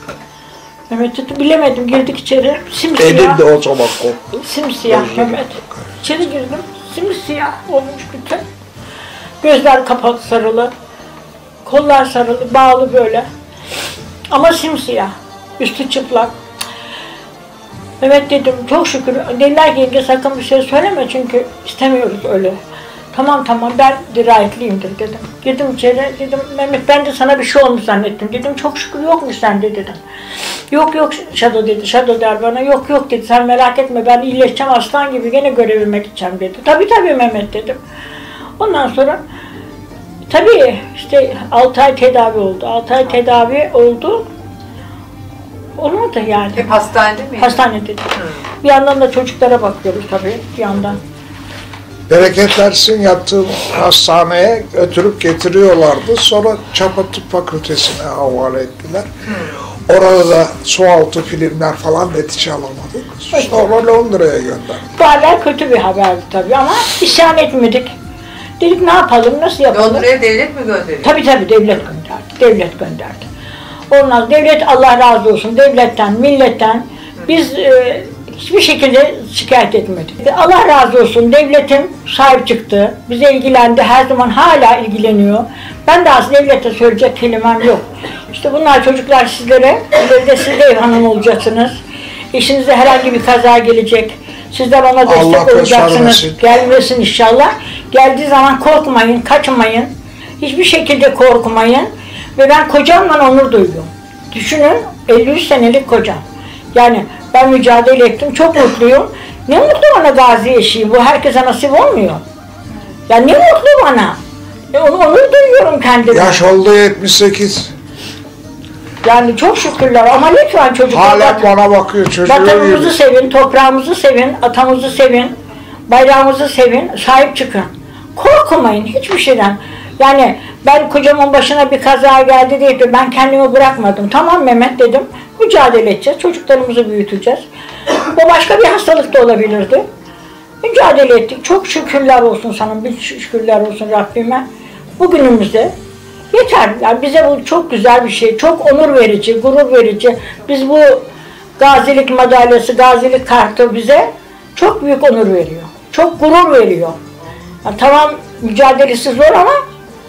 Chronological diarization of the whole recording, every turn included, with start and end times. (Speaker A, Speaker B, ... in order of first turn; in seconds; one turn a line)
Speaker A: 0.9-3.4
Speaker B: 3.0-5.7
Speaker A: 4.4-8.4
Speaker A: 9.4-10.7
Speaker A: 11.6-13.3
Speaker A: 14.3-16.3
Speaker A: 18.0-22.6
Speaker A: 23.1-30.0
Speaker A: 30.7-37.8
Speaker A: 38.6-39.2
Speaker A: 40.3-44.2
Speaker A: 45.8-46.8
Speaker C: 46.5-48.4
Speaker A: 47.4-48.1
Speaker A: 48.6-51.0
Speaker B: 52.1-59.1
Speaker C: 59.3-59.6
Speaker B: 59.8-64.8
Speaker A: 63.3-63.6
Speaker A: 64.9-67.9
Speaker A: 68.6-70.1
Speaker C: 69.7-71.2
Speaker A: 71.0-73.2
Speaker A: 73.9-91.8
Speaker A: 92.3-106.2
Speaker B: 95.0-96.4
Speaker A: 106.7-112.2
Speaker A: 113.1-114.2
Speaker A: 114.7-116.5
Speaker B: 116.1-117.7
Speaker A: 119.0-121.5
Speaker B: 120.9-123.0
Speaker A: 122.2-125.3
Speaker A: 125.9-139.9
Speaker A: 140.6-144.4
Speaker A: 145.0-145.7
Speaker A: 146.3-157.0
Speaker A: 157.6-159.6